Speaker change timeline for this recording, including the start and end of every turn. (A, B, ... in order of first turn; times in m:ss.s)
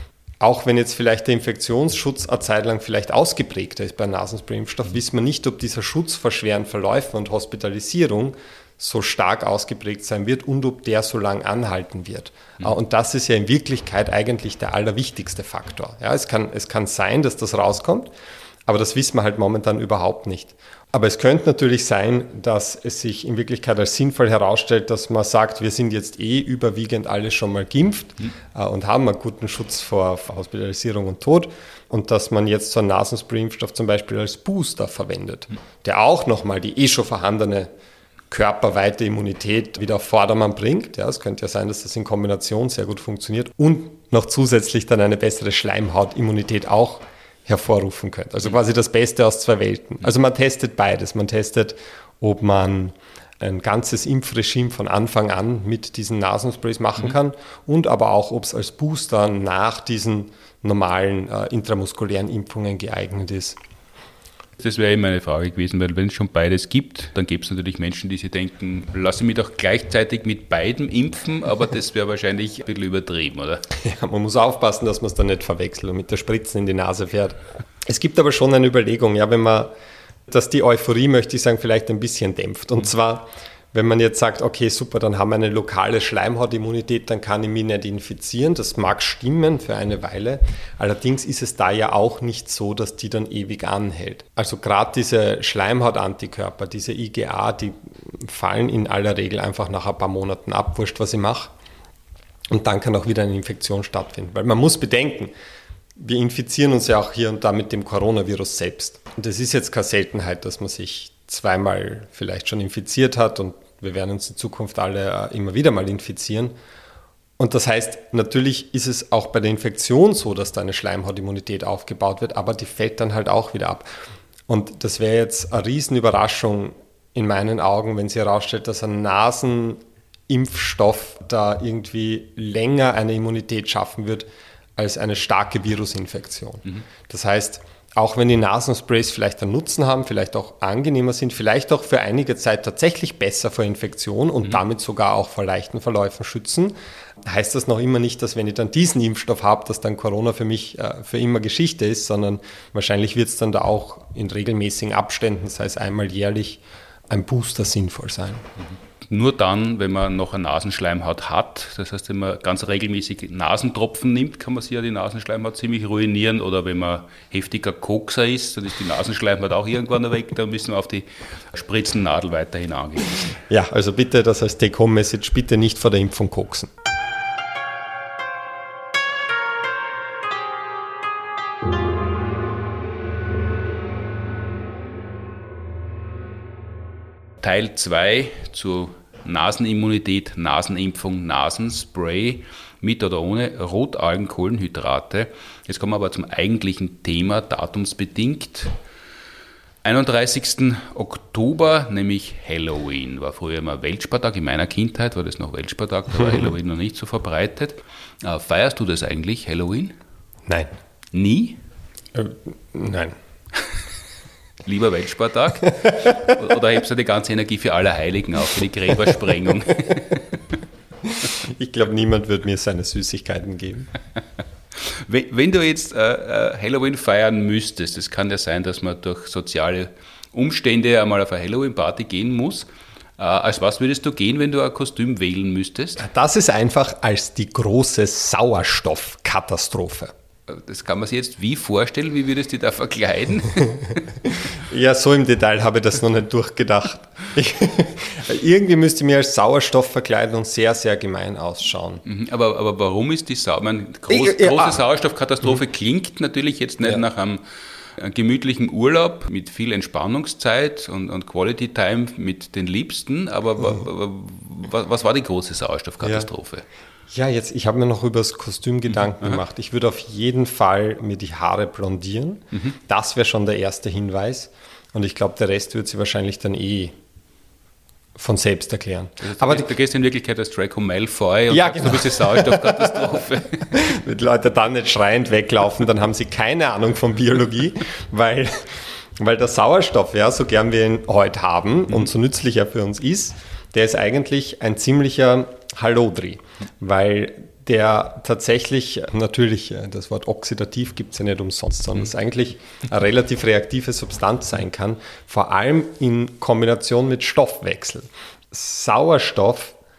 0:00.4-0:18.1 A
0:18.6-0:37.7 A
0:38.3-1:03.6 A
1:04.6-1:13.6 B
1:13.7-1:19.7 A
1:20.3-1:41.5 A
1:42.5-1:45.3 A
1:46.0-1:56.5 A
1:57.4-2:03.9 A
2:04.5-2:38.4 A
2:39.1-2:53.4 B
2:53.5-2:56.7 A
3:07.4-3:18.8 B
3:19.8-3:29.9 B
3:31.1-3:31.6 B
3:32.1-3:33.2 A
3:34.6-3:40.3 B
3:36.0-3:36.3 A
3:41.0-3:43.9 A
3:44.8-3:56.0 B
3:56.0-4:00.1 A
4:00.5-4:04.0 B
4:04.3-4:12.0 A
4:12.0-4:17.4 B
4:14.1-4:14.8 A
4:18.0-4:26.6 B
4:26.0-4:26.3 A
4:27.1-4:36.9 A
4:38.2-4:39.7 A
4:39.2-4:43.8 B
4:41.5-5:09.8 A